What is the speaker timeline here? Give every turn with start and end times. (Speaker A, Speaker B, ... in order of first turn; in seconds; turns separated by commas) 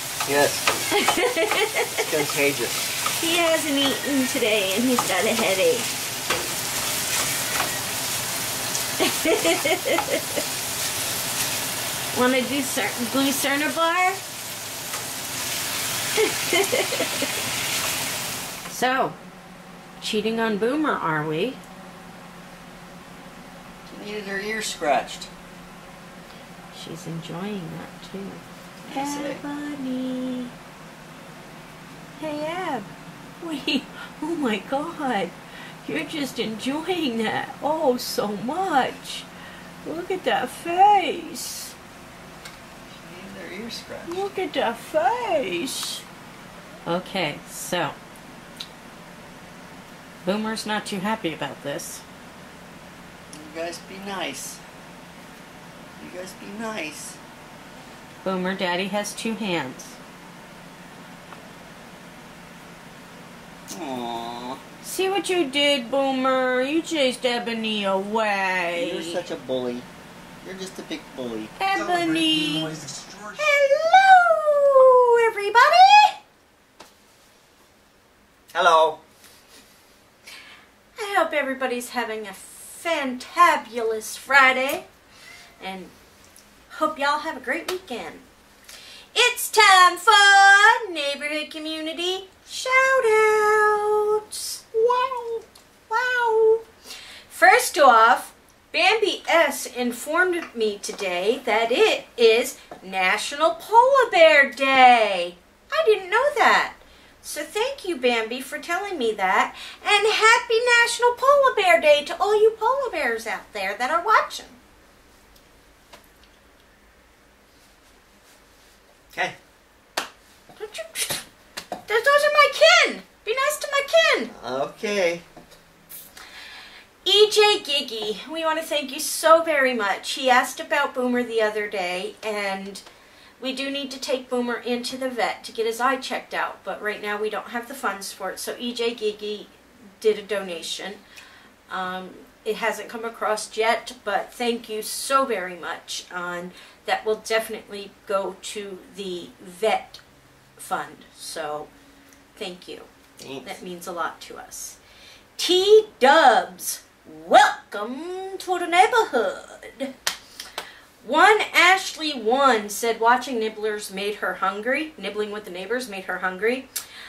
Speaker A: 0.2-0.7, Speaker B: 0.9-2.0, Speaker A: 1.9-2.9, Speaker B: 3.2-5.9, Speaker B: 9.0-10.4, Speaker B: 12.1-14.2, Speaker B: 16.1-17.3, Speaker B: 18.7-19.2, Speaker B: 20.0-21.6, Speaker A: 23.9-25.3, Speaker B: 26.7-30.5, Speaker A: 28.8-29.4, Speaker B: 32.2-32.9, Speaker B: 33.4-39.3, Speaker B: 39.8-41.7, Speaker A: 42.9-44.2, Speaker B: 44.1-46.0, Speaker B: 46.9-47.9, Speaker B: 50.2-52.0, Speaker A: 53.3-54.6, Speaker A: 56.0-57.2, Speaker B: 58.2-60.0, Speaker A: 63.7-64.6, Speaker B: 64.8-69.2, Speaker A: 68.7-69.9, Speaker A: 70.4-71.6, Speaker B: 71.6-76.2, Speaker A: 78.5-79.0, Speaker B: 81.0-84.9, Speaker B: 85.6-85.9, Speaker B: 86.7-88.2, Speaker B: 89.1-96.6, Speaker B: 97.3-114.6, Speaker A: 119.1-119.4, Speaker B: 120.6-121.2, Speaker B: 121.8-124.3, Speaker A: 124.3-125.2, Speaker B: 127.0-132.8, Speaker B: 133.4-141.0, Speaker B: 141.7-150.0, Speaker B: 150.6-151.7, Speaker B: 152.3-152.9, Speaker A: 153.2-153.5, Speaker B: 153.4-154.8, Speaker B: 155.4-159.9, Speaker B: 161.0-166.7